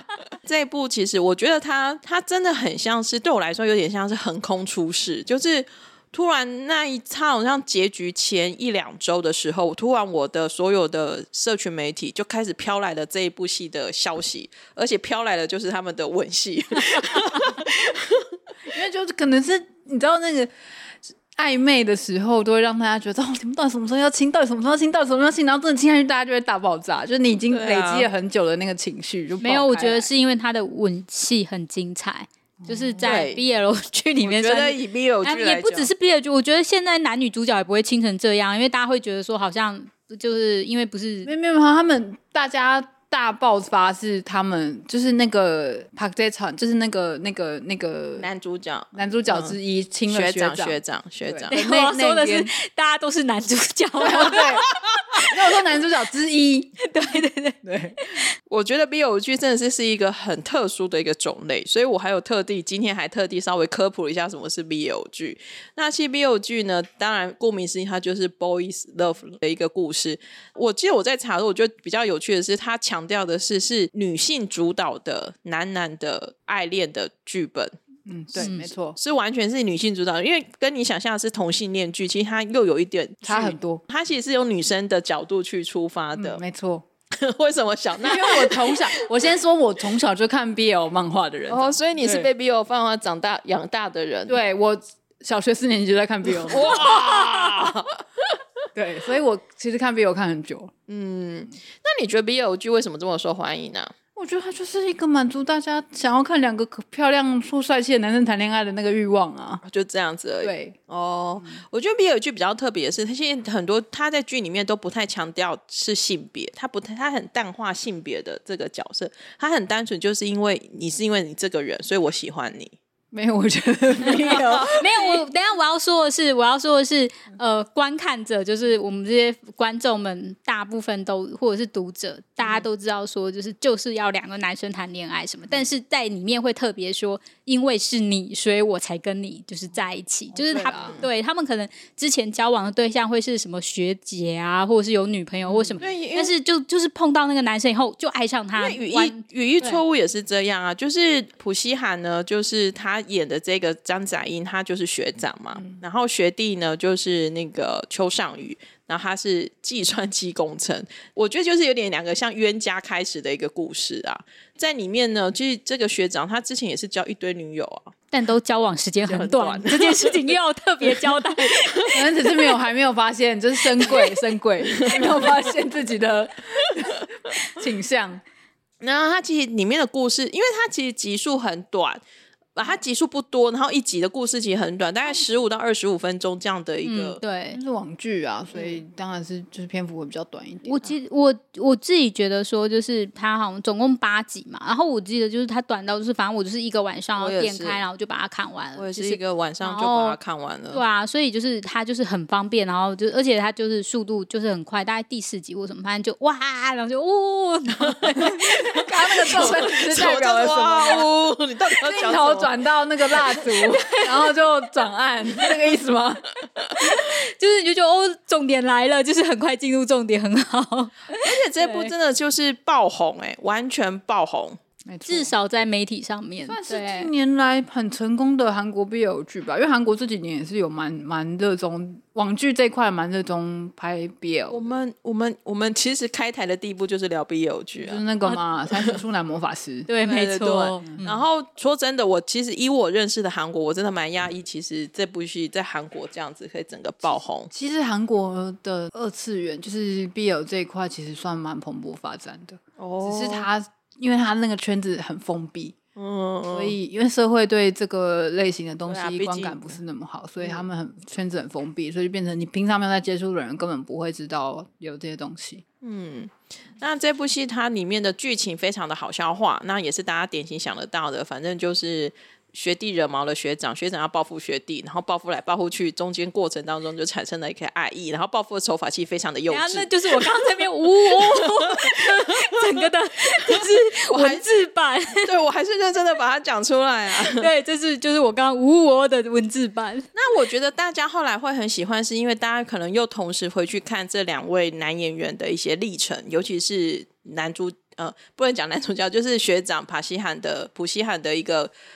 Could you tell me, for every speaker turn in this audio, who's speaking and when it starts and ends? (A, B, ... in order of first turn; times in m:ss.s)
0:00.4-0:18.3 A
0:18.7-0:20.5 B
0:21.3-0:30.1 B
0:27.5-0:28.1 A
0:29.4-0:41.3 C
0:32.6-0:33.2 B
0:33.0-0:33.4 A
0:34.2-0:35.9 A
0:41.2-0:48.3 B
0:48.2-0:49.6 A
0:48.9-0:52.5 B
0:50.1-0:51.6 A
0:51.5-0:54.7 C
0:54.0-0:54.7 B
0:55.3-0:56.7 B
0:56.9-0:58.2 C
0:57.6-0:58.0 B
0:58.5-1:17.7 A
1:18.1-1:19.0 B
1:18.4-1:18.7 C
1:18.4-1:26.4 A
1:23.2-1:23.8 B
1:26.2-1:26.8 B
1:27.2-1:29.0 A
1:28.0-1:32.3 B
1:31.5-1:34.4 A
1:34.3-1:36.9 B
1:36.3-1:38.2 A
1:38.8-1:40.7 B
1:40.9-1:43.9 A
1:44.2-1:49.6 B
1:49.6-2:02.8 A
1:50.4-1:50.8 B
2:03.1-2:04.9 B
2:04.1-2:05.2 A
2:04.7-2:29.8 C
2:20.5-2:21.0 A
2:20.7-2:21.1 B
2:25.4-2:25.9 B
2:25.8-2:26.3 A
2:28.5-2:47.9 A
2:48.1-2:52.6 C
2:49.0-2:52.0 A
2:51.9-2:58.2 B
2:54.7-2:55.1 A
2:58.8-3:02.0 A
3:02.6-3:07.2 A
3:06.8-3:07.6 C
3:07.5-3:10.9 B
3:10.6-3:20.2 C
3:17.2-3:17.8 A
3:18.8-3:20.8 A
3:20.7-3:29.5 C
3:28.2-3:31.1 B
3:29.2-3:32.5 A
3:31.8-3:36.3 B
3:33.2-3:34.3 C
3:36.8-3:41.9 C
3:41.2-3:44.6 A
3:44.9-3:45.3 B
3:45.1-3:47.1 C
3:46.5-3:54.7 B
3:54.5-3:58.0 A
3:57.8-3:59.9 B
3:59.9-4:01.0 C
4:00.0-4:07.5 A
4:00.9-4:01.2 B
4:07.5-4:15.8 B
4:12.8-4:13.5 A
4:16.0-4:16.8 A
4:16.5-4:25.6 B
4:18.9-4:19.8 A
4:25.8-4:42.2 A
4:39.5-4:45.3 C
4:44.1-4:44.5 A
4:45.2-4:47.5 A
4:47.2-4:50.1 C
4:50.2-5:01.7 A